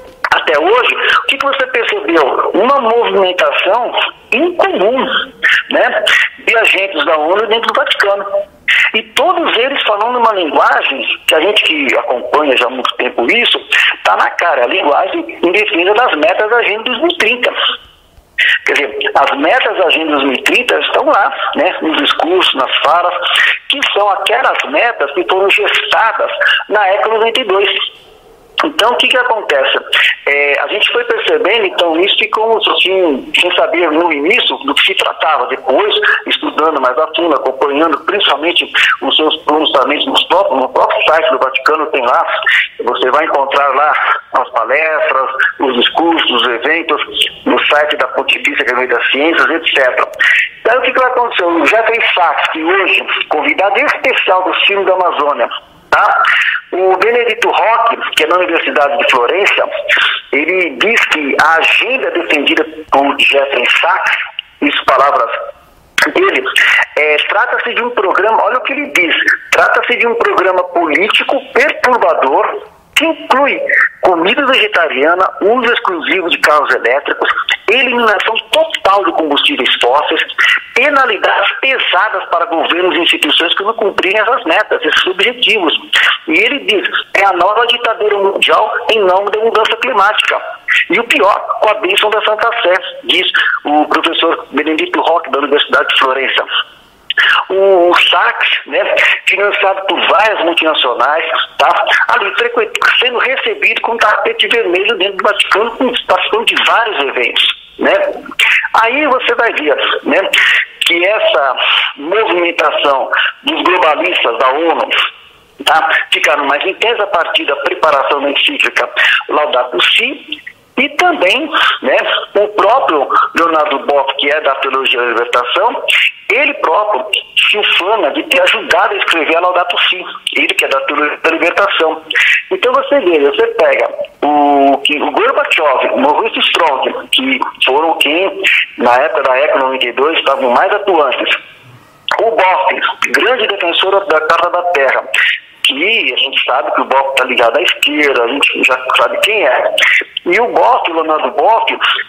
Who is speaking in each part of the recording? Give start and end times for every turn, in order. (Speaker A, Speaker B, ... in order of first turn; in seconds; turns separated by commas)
Speaker A: 0.3-8.2, Speaker A: 8.9-17.5, Speaker A: 18.6-23.2, Speaker A: 23.7-27.9, Speaker A: 28.6-42.3, Speaker A: 42.8-50.1, Speaker A: 50.6-59.7, Speaker A: 60.3-64.0, Speaker A: 64.6-65.4, Speaker A: 66.1-96.5, Speaker A: 97.5-108.2, Speaker A: 108.7-110.3, Speaker A: 110.8-114.9, Speaker A: 115.6-125.8, Speaker A: 126.3-141.4, Speaker A: 142.2-145.1, Speaker A: 145.6-149.7, Speaker A: 150.2-151.8